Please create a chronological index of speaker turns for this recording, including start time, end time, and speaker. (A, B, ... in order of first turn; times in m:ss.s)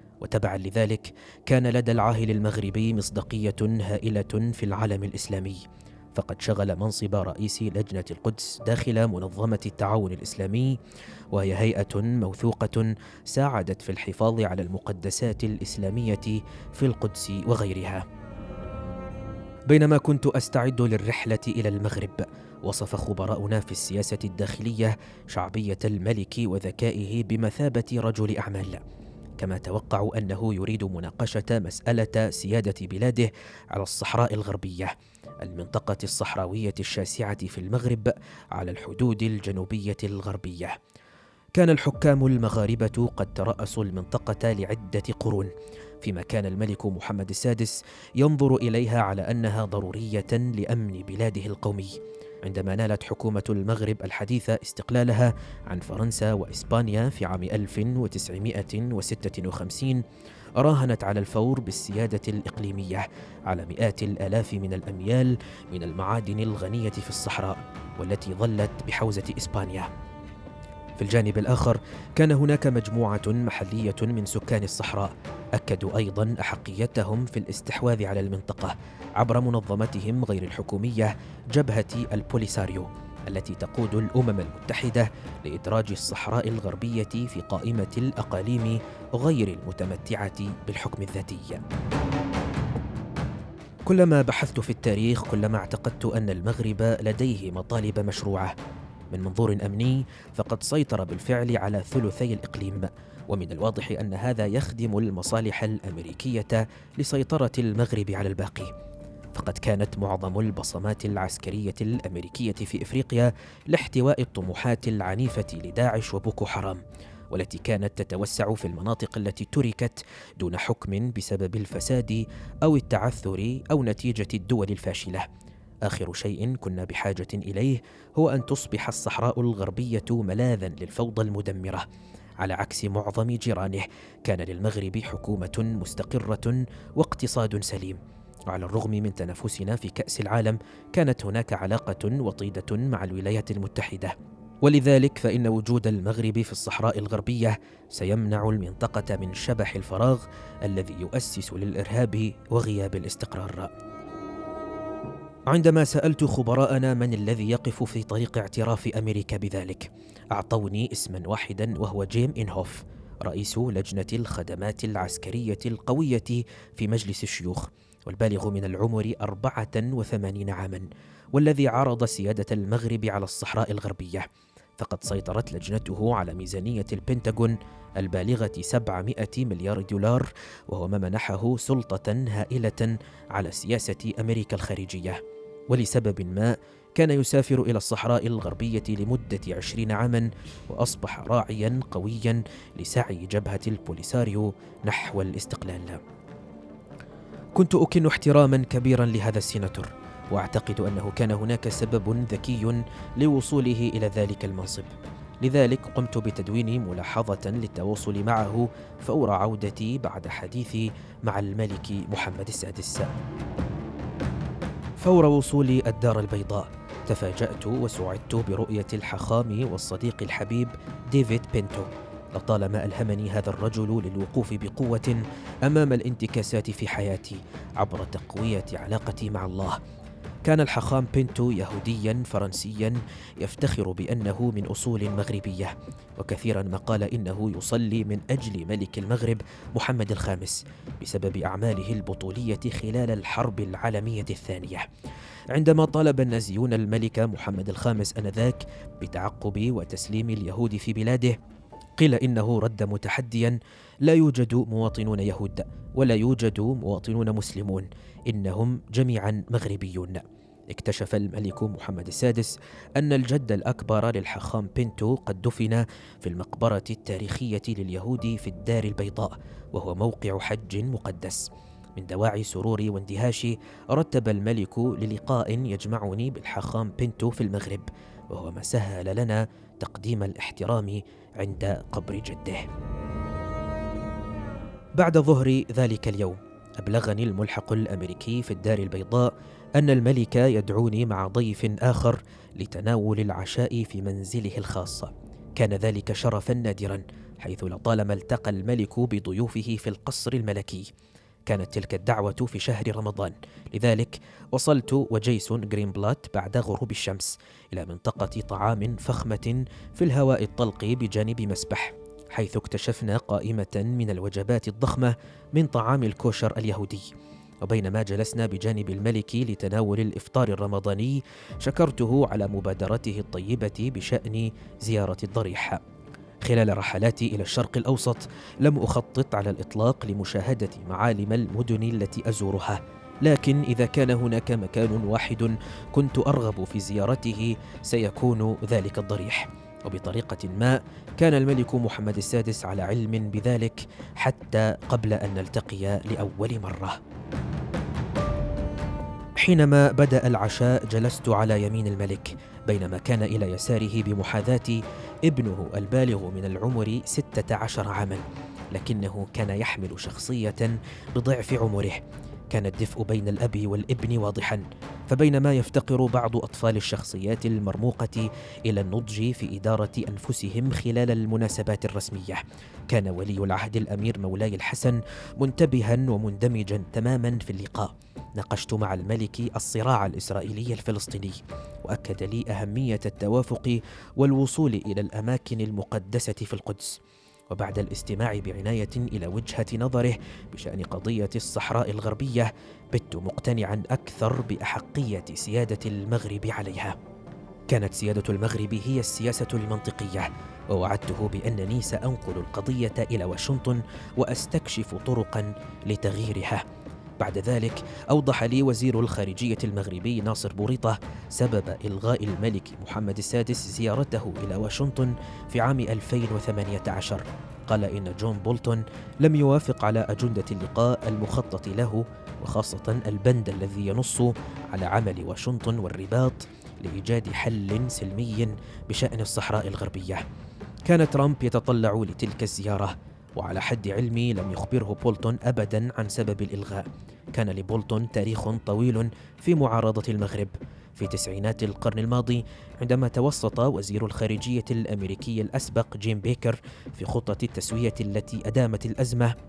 0:00.2-0:05.6 A
0:06.1-0:10.8 A
0:11.3-0:18.0 A
0:19.7-0:28.8 A
0:29.4-0:40.8 A
0:41.6-0:45.5 A
0:46.0-1:00.0 A
1:00.6-1:09.9 A
1:11.0-1:31.6 A
1:33.9-1:38.6 A
1:39.1-1:48.7 A
1:49.3-2:05.3 A
2:05.8-2:11.9 A
2:12.4-2:33.7 A
2:35.5-2:54.3 A
2:54.8-3:16.0 A
3:17.6-3:33.2 A
3:35.0-3:49.8 A
3:50.4-4:04.9 A
4:05.5-4:11.4 A
4:12.0-4:42.7 A
4:45.0-5:00.9 A
5:01.5-5:17.1 A
5:17.6-5:25.8 A
5:26.4-5:47.0 A
5:49.4-6:37.0 A
6:37.7-6:46.6 A
6:47.2-7:10.2 A
7:10.9-7:29.3 A